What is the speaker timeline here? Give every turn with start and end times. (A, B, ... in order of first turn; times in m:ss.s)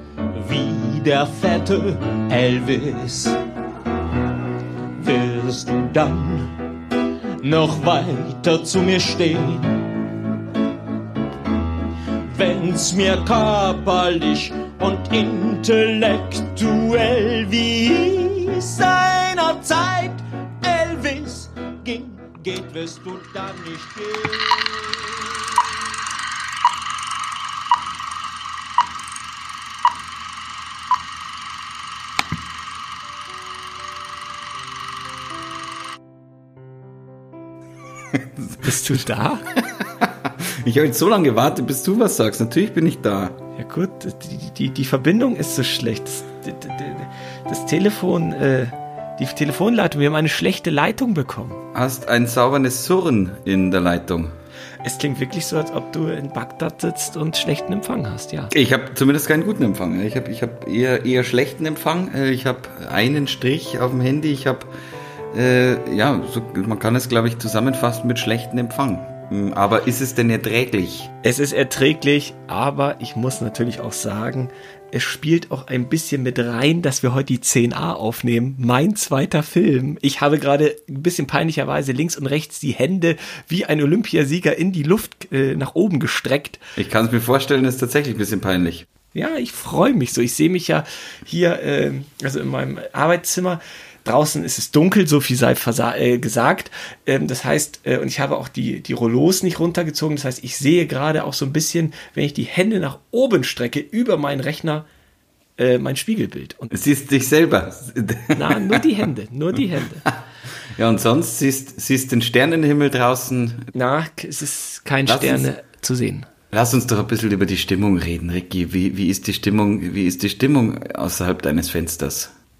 0:00.3-0:03.4 A
0:05.0-0:06.5 A
0:07.4-0:09.8 A
0:12.3-0:25.1 A
0:38.2-0:38.9 B
0:38.6-0:39.4 C
0:39.8-0:43.4 B
0:43.6-0:51.6 C
0:51.7-0:54.3 B
0:54.8-0:58.5 C
0:58.5-1:04.7 B
1:05.3-1:11.1 B
1:11.2-1:26.6 C
1:26.8-1:28.9 B
1:29.1-1:44.9 C
1:45.6-1:46.8 C
1:46.7-1:48.8 B
1:48.4-1:50.0 C
1:50.7-1:53.7 B
1:53.7-1:56.3 C
1:55.1-1:55.5 B
1:56.5-2:02.3 B